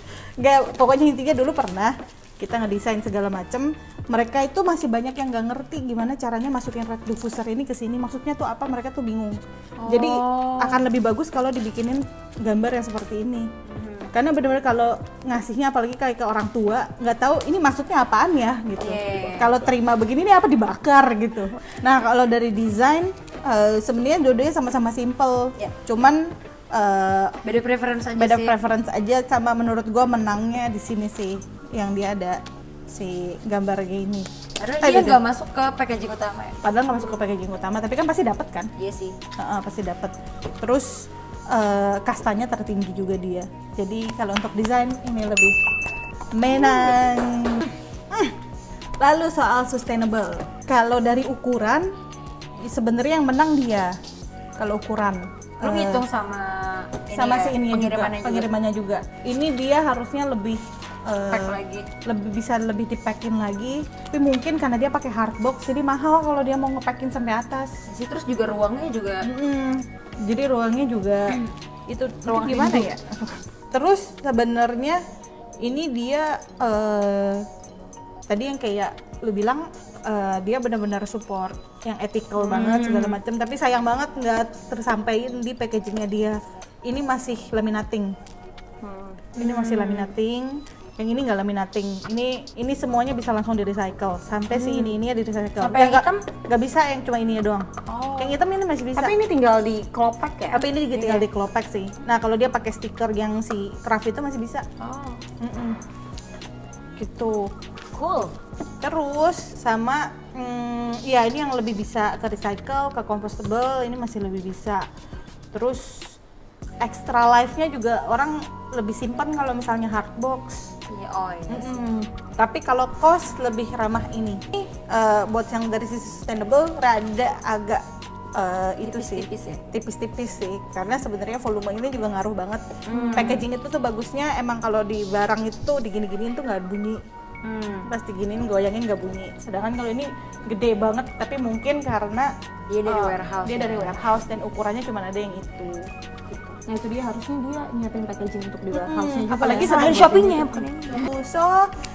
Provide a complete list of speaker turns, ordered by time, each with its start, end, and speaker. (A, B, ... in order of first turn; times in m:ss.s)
0:00.4-0:13.5 A
0:09.8-0:10.8 B
0:13.7-0:14.1 B
0:14.1-0:27.4 A
0:18.8-0:19.6 B
0:27.4-0:28.6 B
0:28.2-0:34.3 A
0:34.6-0:36.6 B
0:34.8-0:35.2 A
0:36.6-0:38.7 A
0:38.8-0:39.2 B
0:39.4-0:45.6 A
0:46.3-0:48.3 A
0:49.0-0:51.9 A
0:52.6-0:53.9 A
0:54.6-0:56.0 A
0:55.6-0:58.5 B
0:57.1-1:07.7 A
1:01.3-1:01.9 B
1:07.9-1:09.3 B
1:09.2-1:11.4 A
1:11.9-1:15.0 A
1:12.3-1:12.9 B
1:15.6-1:17.4 A
1:18.3-1:28.1 A
1:22.4-1:23.2 B
1:28.8-1:29.2 C
1:29.3-1:37.6 A
1:29.4-1:30.1 B
1:34.5-1:35.0 B
1:35.6-1:36.2 B
1:37.8-1:38.4 B
1:38.2-1:39.1 A
1:39.0-1:40.6 C
1:40.5-1:44.6 A
1:40.9-1:41.3 B
1:44.8-1:45.2 B
1:45.4-1:45.8 A
1:47.0-1:47.5 A
1:47.9-1:48.3 B
1:48.8-1:54.8 A
1:55.5-1:56.2 A
1:56.8-2:00.7 A
2:00.9-2:01.8 B
2:01.5-2:07.8 A
2:08.4-2:12.6 A
2:08.8-2:09.6 B
2:12.9-2:13.4 B
2:13.1-2:17.0 A
2:17.4-2:17.9 B
2:17.9-2:22.3 A
2:22.7-2:24.0 B
2:22.9-2:25.8 A
2:26.6-2:30.5 C
2:28.7-2:31.7 A
2:29.3-2:31.1 B